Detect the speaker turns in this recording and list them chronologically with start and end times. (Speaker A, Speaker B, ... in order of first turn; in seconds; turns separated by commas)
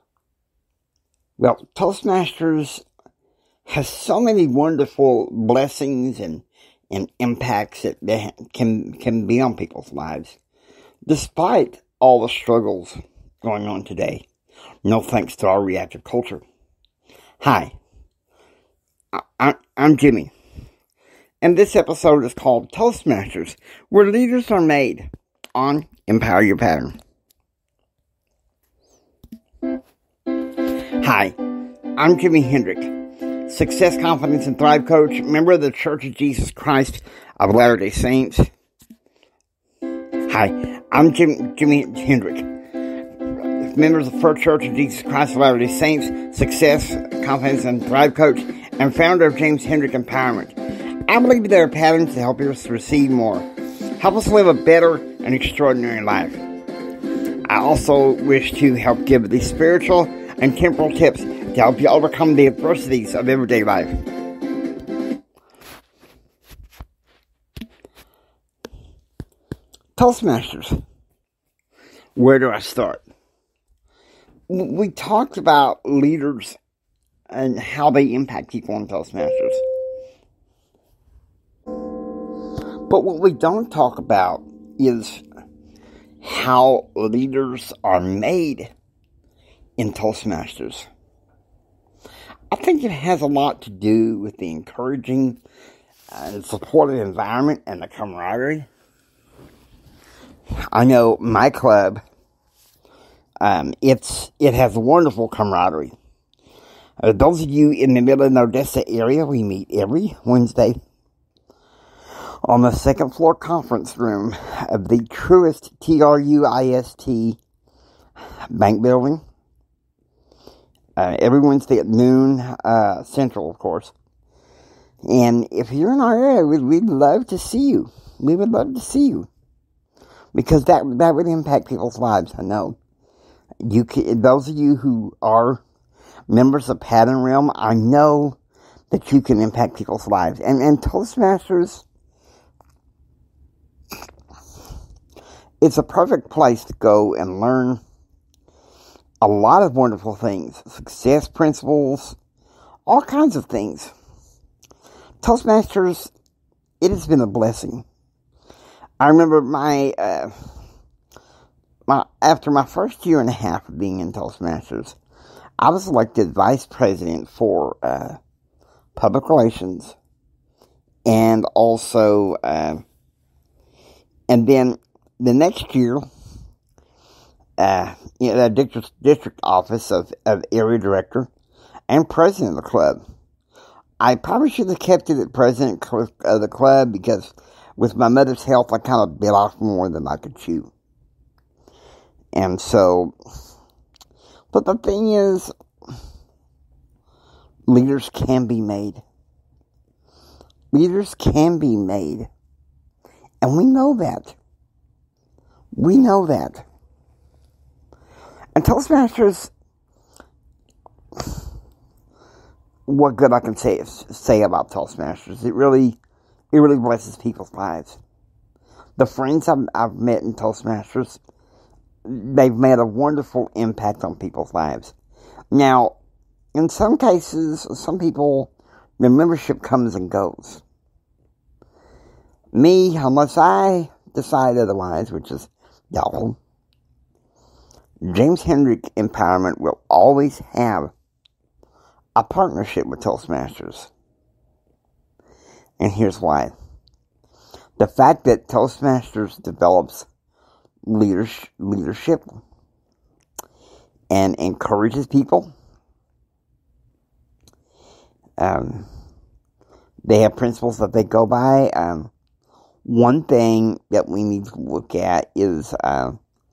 Speaker A: 1.4-2.8, Speaker A: 3.7-10.4, Speaker A: 11.1-14.3, Speaker A: 14.8-16.4, Speaker A: 17.4-17.8, Speaker A: 19.1-20.3, Speaker A: 21.4-26.9, Speaker A: 31.0-31.4, Speaker A: 32.0-38.5, Speaker A: 40.3-42.5, Speaker A: 43.6-53.5, Speaker A: 54.0-56.4, Speaker A: 57.5-64.0, Speaker A: 70.0-70.8, Speaker A: 72.2-73.0, Speaker A: 74.5-76.6, Speaker A: 77.3-79.6, Speaker A: 82.9-85.2, Speaker A: 86.2-88.7, Speaker A: 89.8-90.9, Speaker A: 92.5-95.4, Speaker A: 96.1-98.7, Speaker A: 100.7-102.0, Speaker A: 103.4-105.9, Speaker A: 107.0-110.8, Speaker A: 112.4-117.4, Speaker A: 118.5-119.2, Speaker A: 121.0-123.9, Speaker A: 125.0-129.3, Speaker A: 130.3-132.8, Speaker A: 133.6-135.6, Speaker A: 136.3-138.4, Speaker A: 138.9-141.8, Speaker A: 145.6-147.8, Speaker A: 149.2-152.2, Speaker A: 152.9-153.9, Speaker A: 155.2-156.1, Speaker A: 156.8-157.8, Speaker A: 159.0-160.3, Speaker A: 161.9-165.0, Speaker A: 165.6-168.2, Speaker A: 168.9-170.0, Speaker A: 171.1-172.8, Speaker A: 174.3-176.1, Speaker A: 177.6-181.3, Speaker A: 181.9-183.0, Speaker A: 184.0-190.7, Speaker A: 192.3-193.1, Speaker A: 194.5-195.5, Speaker A: 197.7-199.0, Speaker A: 200.7-202.3, Speaker A: 203.4-204.4, Speaker A: 205.8-206.7, Speaker A: 208.6-209.5, Speaker A: 212.9-216.0, Speaker A: 216.5-218.0, Speaker A: 219.0-221.2, Speaker A: 222.1-225.0, Speaker A: 225.5-225.9, Speaker A: 226.5-230.6, Speaker A: 232.5-236.4, Speaker A: 238.0-240.9, Speaker A: 242.2-243.9, Speaker A: 245.8-246.5, Speaker A: 247.8-250.1, Speaker A: 250.8-252.4, Speaker A: 254.1-255.5, Speaker A: 258.4-258.9, Speaker A: 260.1-262.1, Speaker A: 262.9-266.2